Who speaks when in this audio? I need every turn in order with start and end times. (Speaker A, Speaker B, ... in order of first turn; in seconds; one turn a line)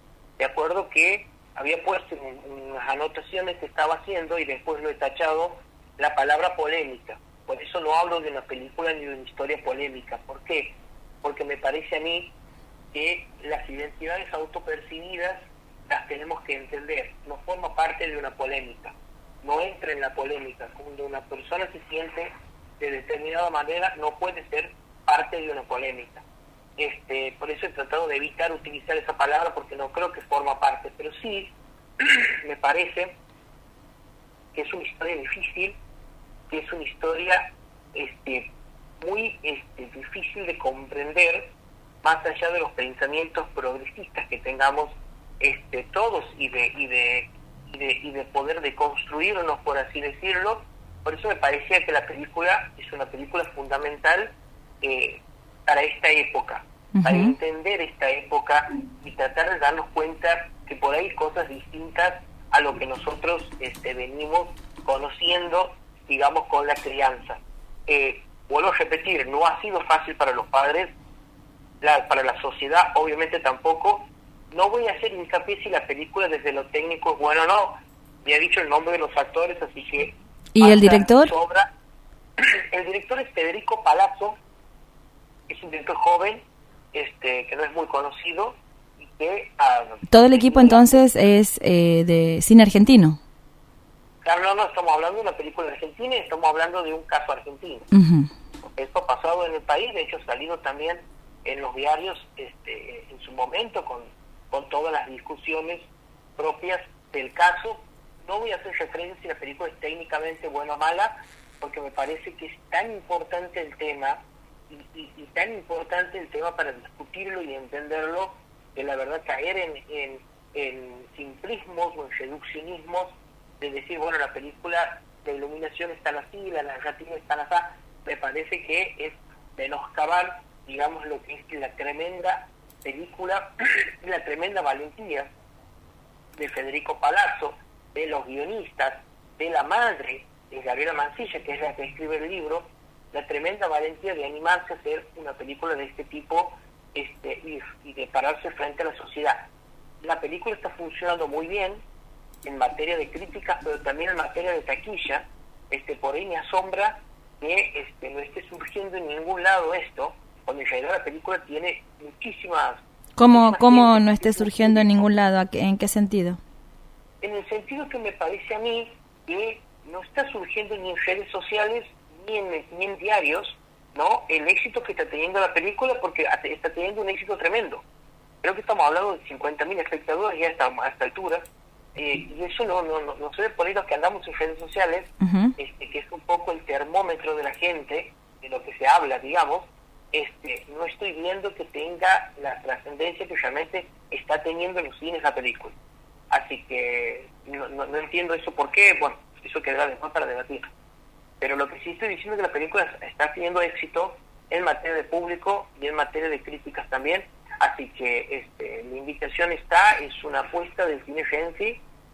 Speaker A: 0.4-12.3
Speaker A: 12.9-26.2
Speaker A: 26.8-33.2
Speaker A: 34.5-35.8
Speaker A: 36.5-38.5
Speaker A: 39.0-41.5
Speaker A: 42.0-70.9
Speaker B: 57.0-57.4
Speaker A: 71.8-81.7
Speaker B: 80.5-81.3
Speaker A: 82.4-84.4
Speaker A: 85.5-86.4
Speaker A: 86.9-91.0
Speaker B: 90.1-93.2
Speaker A: 94.2-97.9
Speaker B: 97.9-98.3
Speaker A: 98.6-135.3
Speaker A: 136.4-149.5
Speaker A: 150.0-151.8
Speaker A: 152.4-165.0
Speaker B: 163.2-166.4
Speaker A: 167.2-177.8
Speaker A: 178.4-181.4
Speaker A: 182.0-195.8
Speaker B: 185.2-185.6
Speaker A: 196.3-200.7
Speaker A: 201.4-211.8